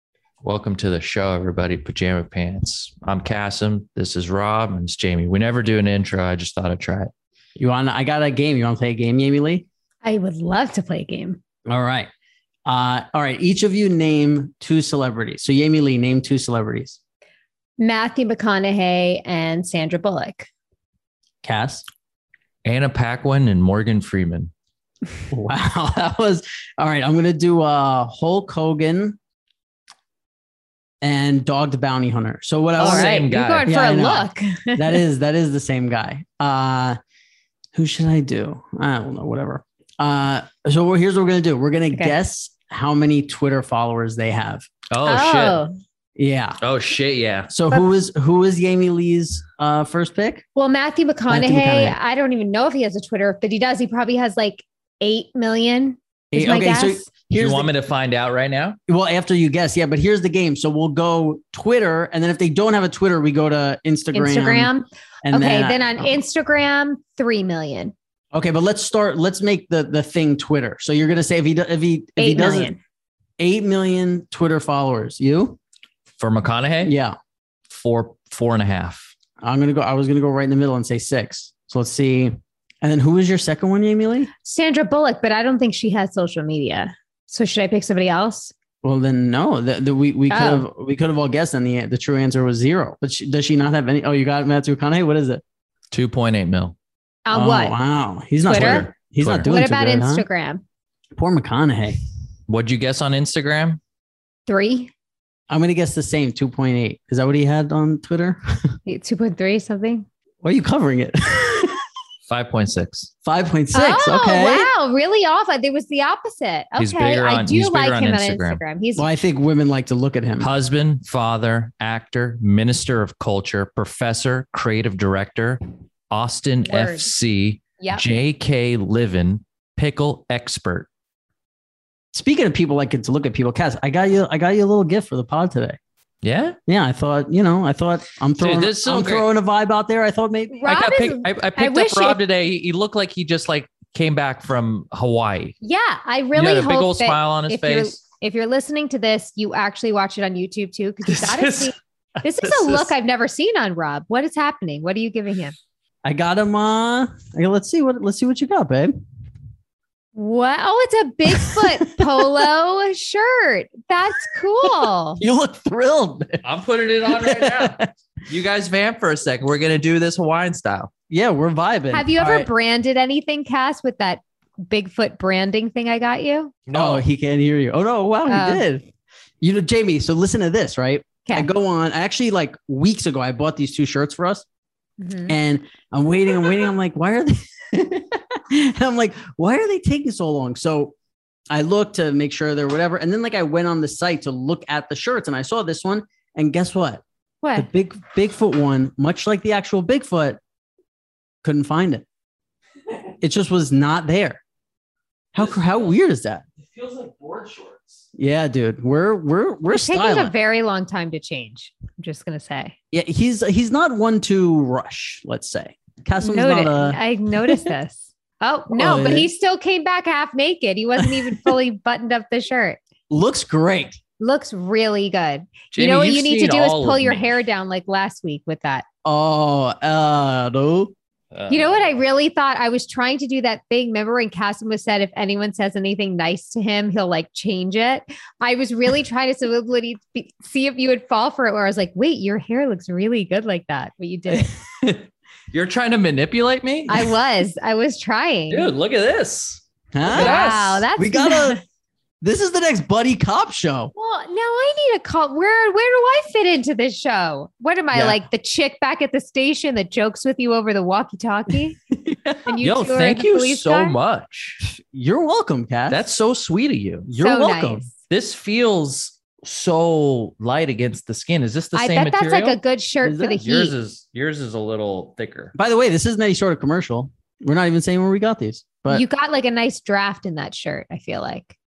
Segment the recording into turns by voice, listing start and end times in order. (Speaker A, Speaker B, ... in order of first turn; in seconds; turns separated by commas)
Speaker A: 0.4-7.1, Speaker B: 7.6-9.7, Speaker C: 10.0-11.4, Speaker B: 11.7-12.1, Speaker B: 12.7-17.0, Speaker C: 17.8-20.5, Speaker B: 21.4-21.8, Speaker A: 22.6-24.5, Speaker B: 25.3-29.2, Speaker B: 31.0-37.0, Speaker A: 32.8-33.7, Speaker C: 32.8-35.0, Speaker B: 37.7-44.7, Speaker A: 44.9-45.6, Speaker C: 45.0-45.7, Speaker B: 46.1-46.6, Speaker A: 46.6-47.5, Speaker B: 47.5-50.4, Speaker C: 50.5-57.0, Speaker B: 51.3-52.0, Speaker B: 56.3-57.7, Speaker A: 57.3-58.8, Speaker B: 58.9-64.7, Speaker C: 64.1-67.9, Speaker B: 65.2-66.2, Speaker B: 68.3-72.7, Speaker C: 72.2-72.8, Speaker B: 73.4-75.6, Speaker A: 76.2-76.9, Speaker B: 76.8-77.2, Speaker A: 77.7-79.1, Speaker B: 79.4-84.3, Speaker C: 84.4-88.5, Speaker B: 88.8-95.4, Speaker C: 90.3-90.7, Speaker A: 95.9-96.7, Speaker C: 97.2-97.8, Speaker B: 97.3-100.2, Speaker A: 98.5-99.5, Speaker C: 98.5-98.9, Speaker C: 99.5-100.6, Speaker B: 101.1-102.0, Speaker A: 102.5-103.8, Speaker C: 104.5-104.9, Speaker B: 105.5-108.6, Speaker C: 108.8-110.1, Speaker B: 110.4-111.8, Speaker A: 112.3-113.1, Speaker B: 113.2-114.7, Speaker C: 113.7-119.1, Speaker A: 116.8-118.6, Speaker B: 119.0-120.5, Speaker A: 120.4-130.9, Speaker C: 126.7-127.1, Speaker C: 127.8-128.1, Speaker B: 132.1-135.8, Speaker A: 136.2-136.6, Speaker B: 136.7-140.6, Speaker A: 138.4-139.3, Speaker C: 140.5-142.2, Speaker A: 140.7-145.6, Speaker C: 145.6-155.6, Speaker A: 146.3-148.0, Speaker A: 151.1-152.8, Speaker B: 156.0-159.0, Speaker C: 160.1-165.2, Speaker B: 161.3-162.4, Speaker B: 164.7-166.4, Speaker A: 166.4-170.9, Speaker B: 167.0-167.9, Speaker B: 171.1-172.5, Speaker C: 171.9-176.5, Speaker A: 176.7-177.0, Speaker B: 176.7-178.8, Speaker C: 178.3-178.6, Speaker B: 179.4-184.4, Speaker C: 185.0-185.3, Speaker B: 185.3-190.9, Speaker B: 191.5-197.0, Speaker C: 197.4-197.7, Speaker B: 197.6-200.4, Speaker B: 201.4-202.0, Speaker B: 203.2-204.4, Speaker B: 205.3-206.4, Speaker A: 206.7-208.0, Speaker B: 208.2-210.3, Speaker C: 209.7-212.7, Speaker B: 212.9-217.7, Speaker C: 216.2-222.8, Speaker B: 218.7-219.3, Speaker B: 221.0-221.3, Speaker B: 223.1-224.0, Speaker C: 224.2-228.8, Speaker A: 225.7-227.3, Speaker B: 229.0-230.9, Speaker A: 231.3-231.8, Speaker C: 231.5-244.5, Speaker B: 244.3-245.0, Speaker A: 245.5-247.1, Speaker C: 246.9-248.7, Speaker A: 248.5-250.8, Speaker B: 249.9-251.6, Speaker C: 250.1-251.6, Speaker B: 252.2-253.9, Speaker C: 253.9-261.8, Speaker B: 257.9-258.2, Speaker B: 261.9-262.5, Speaker C: 262.4-263.9, Speaker A: 262.6-264.6, Speaker B: 264.6-266.0, Speaker A: 265.9-267.1, Speaker B: 267.1-267.9, Speaker C: 267.2-267.9, Speaker A: 268.1-272.6, Speaker C: 271.7-273.7, Speaker B: 273.0-273.4, Speaker A: 273.3-275.5, Speaker B: 275.5-279.0, Speaker C: 278.9-281.5